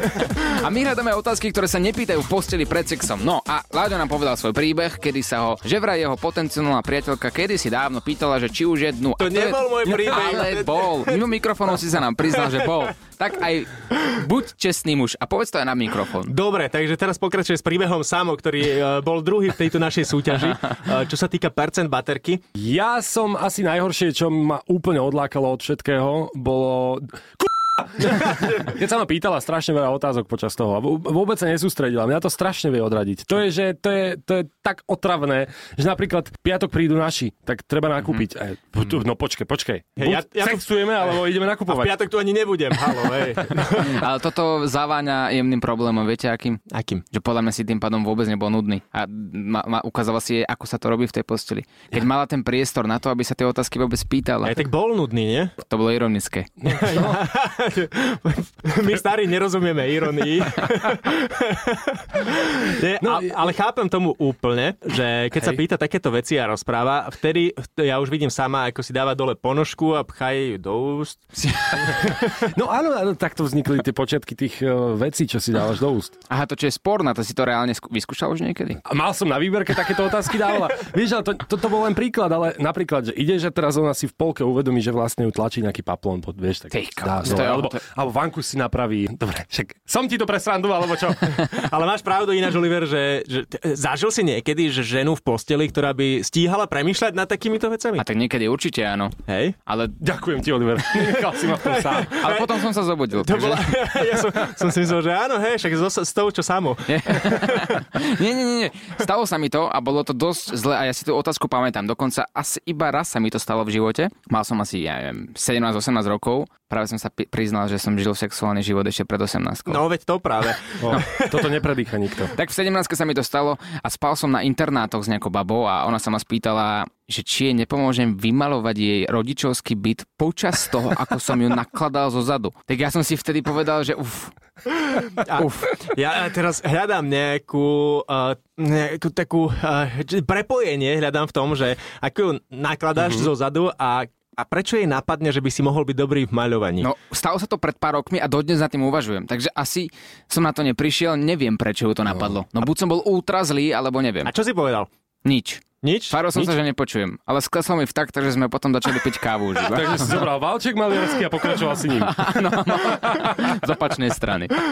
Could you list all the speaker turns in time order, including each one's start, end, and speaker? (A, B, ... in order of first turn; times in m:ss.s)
0:00.4-0:16.3 A
0:09.2-0:11.4 B
0:12.4-0:12.7 B
0:16.3-0:22.4 B
0:22.6-0:42.0 C
0:40.0-0:44.0 B
0:43.8-0:46.6 A
0:46.7-0:47.0 B
0:47.1-0:54.6 A
0:54.4-0:55.6 B
0:55.6-0:56.5 A
0:56.6-0:57.2 C
0:56.7-1:12.2 B
1:03.0-1:03.4 C
1:11.4-1:11.9 A
1:12.5-1:16.2 C
1:16.3-1:18.8 A
1:18.8-1:31.5 C
1:26.7-1:27.8 A
1:31.4-1:38.0 B
1:38.0-1:40.0 A
1:39.3-1:39.6 B
1:40.0-1:42.4 C
1:41.0-1:42.6 B
1:42.2-1:43.7 A
1:43.2-1:47.8 B
1:46.9-1:59.8 A
1:59.7-2:01.5 B
2:00.8-2:02.4 C
2:02.4-2:14.3 A
2:15.2-2:26.9 B
2:15.3-2:15.8 A
2:23.0-2:23.3 C
2:26.8-2:34.3 A
2:34.3-2:34.9 B
2:35.2-2:40.2 A
2:35.8-2:36.5 B
2:39.7-2:43.6 C
2:42.0-2:44.6 A